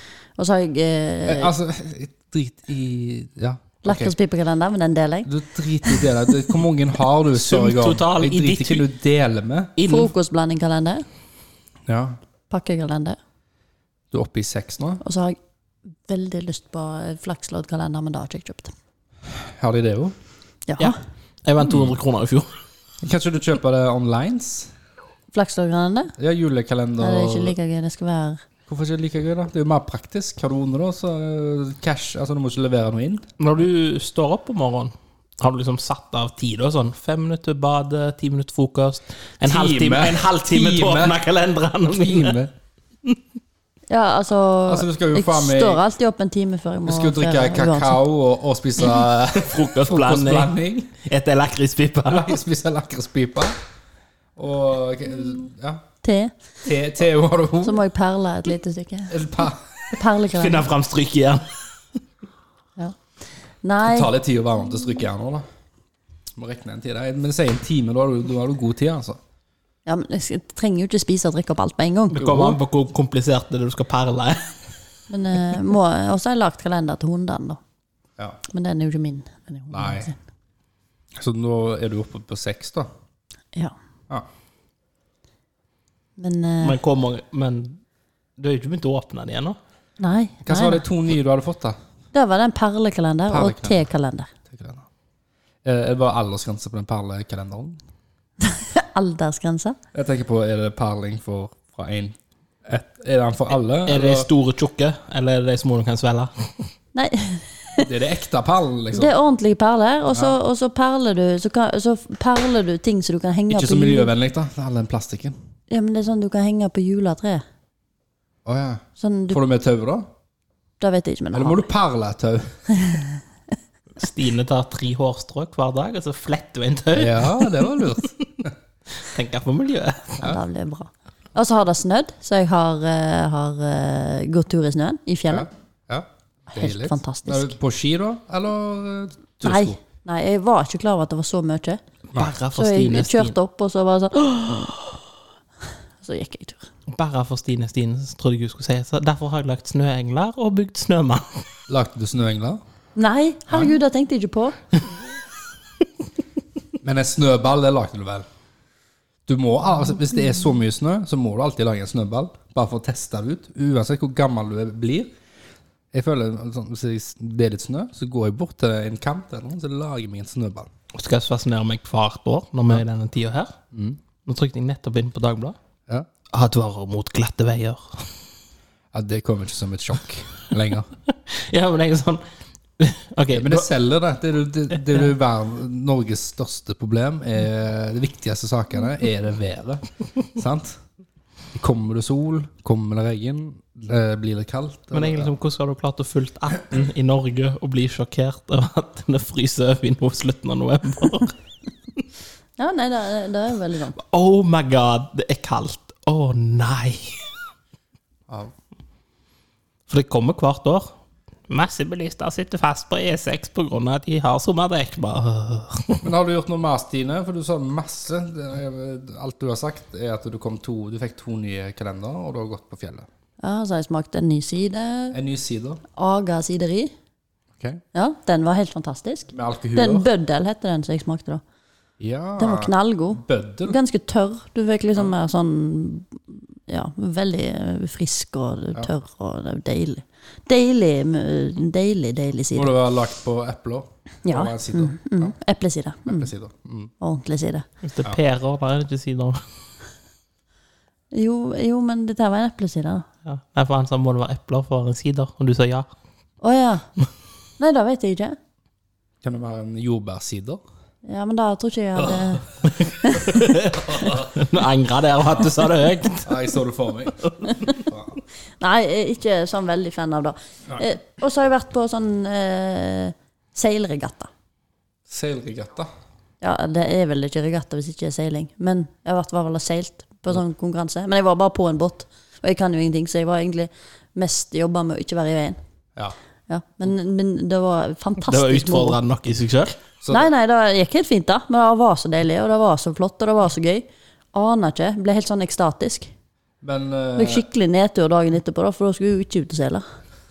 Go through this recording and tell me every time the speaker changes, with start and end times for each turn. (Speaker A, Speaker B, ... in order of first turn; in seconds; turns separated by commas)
Speaker A: 0.4-1.5, Speaker B: 1.2-4.1, Speaker A: 3.8-5.3, Speaker B: 5.2-9.8, Speaker C: 7.3-8.8, Speaker C: 9.8-10.1, Speaker A: 9.8-11.0, Speaker B: 11.9-12.2, Speaker A: 12.5-13.2, Speaker B: 14.1-15.0, Speaker A: 15.0-15.4, Speaker A: 16.1-18.7, Speaker B: 19.4-20.1, Speaker A: 20.7-20.9, Speaker C: 20.8-22.5, Speaker B: 21.6-21.9, Speaker B: 23.0-24.7, Speaker A: 25.3-26.1, Speaker B: 26.2-27.5, Speaker A: 27.0-28.4, Speaker B: 28.7-33.2, Speaker C: 33.4-42.4, Speaker B: 39.4-41.2, Speaker B: 41.8-42.5, Speaker A: 43.9-48.0, Speaker B: 44.7-45.8, Speaker B: 46.8-51.0, Speaker C: 49.3-50.5, Speaker C: 51.0-52.4, Speaker B: 52.1-53.5, Speaker B: 54.4-55.8, Speaker A: 56.0-56.3, Speaker B: 56.6-57.8, Speaker A: 57.6-59.3, Speaker B: 59.1-59.7, Speaker A: 59.9-60.6, Speaker C: 60.2-61.5, Speaker A: 63.6-64.1, Speaker B: 63.8-65.4, Speaker B: 66.3-69.2, Speaker A: 69.8-72.3, Speaker C: 72.1-74.5, Speaker B: 72.2-72.6, Speaker A: 75.1-77.6, Speaker A: 78.5-80.2, Speaker B: 79.7-80.1, Speaker B: 81.2-82.9, Speaker A: 86.2-86.8, Speaker C: 86.6-87.8, Speaker C: 88.4-89.6, Speaker A: 90.0-90.8, Speaker B: 90.4-91.8, Speaker A: 92.1-94.3, Speaker B: 93.3-93.8, Speaker B: 94.5-94.8, Speaker B: 95.6-97.8, Speaker A: 98.4-99.8, Speaker B: 99.9-104.3, Speaker C: 103.8-106.5, Speaker A: 106.9-107.9, Speaker B: 107.8-109.1, Speaker A: 108.9-114.1, Speaker B: 110.1-110.4, Speaker B: 113.5-115.3, Speaker A: 115.7-117.4, Speaker B: 118.4-120.1, Speaker A: 119.0-119.4, Speaker A: 120.8-121.7, Speaker B: 121.3-122.6, Speaker A: 122.8-123.0, Speaker C: 124.0-127.7, Speaker B: 126.9-128.5, Speaker C: 129.0-130.2, Speaker A: 130.2-135.5, Speaker B: 135.3-139.8, Speaker A: 136.5-137.5, Speaker A: 139.4-141.8, Speaker C: 142.1-143.3, Speaker A: 142.5-144.9, Speaker A: 146.0-146.6, Speaker C: 146.9-151.4, Speaker B: 151.7-152.6, Speaker A: 152.9-154.6, Speaker B: 156.8-158.2, Speaker B: 159.2-165.1, Speaker B: 165.9-170.7, Speaker C: 170.9-173.6, Speaker B: 173.7-174.0, Speaker C: 174.2-175.6, Speaker C: 176.3-178.1, Speaker B: 178.9-180.9, Speaker C: 181.3-182.2, Speaker C: 182.8-183.7, Speaker B: 183.3-190.8, Speaker B: 191.5-195.3, Speaker C: 194.9-201.3, Speaker A: 202.6-204.0, Speaker C: 204.0-207.2, Speaker C: 209.9-210.9, Speaker C: 211.5-216.1, Speaker B: 216.0-223.1, Speaker A: 223.4-225.2, Speaker B: 225.1-225.8, Speaker A: 225.9-226.9, Speaker A: 227.9-231.4, Speaker B: 229.3-230.1, Speaker B: 232.0-233.8, Speaker A: 232.4-242.7, Speaker B: 242.5-245.3, Speaker A: 244.2-246.3, Speaker B: 246.1-246.9, Speaker A: 247.0-247.7, Speaker C: 247.8-249.4, Speaker A: 251.1-253.1, Speaker C: 253.2-255.9, Speaker A: 256.4-256.8, Speaker A: 257.6-258.4, Speaker B: 259.2-260.6, Speaker A: 261.1-263.3, Speaker C: 262.6-266.3, Speaker B: 263.7-264.3, Speaker B: 266.2-268.1, Speaker A: 268.6-274.3, Speaker B: 275.1-275.9, Speaker A: 276.4-285.6, Speaker A: 286.5-289.0, Speaker C: 288.3-289.8, Speaker B: 290.0-290.3, Speaker A: 290.1-296.1, Speaker B: 296.6-297.4, Speaker A: 297.1-299.8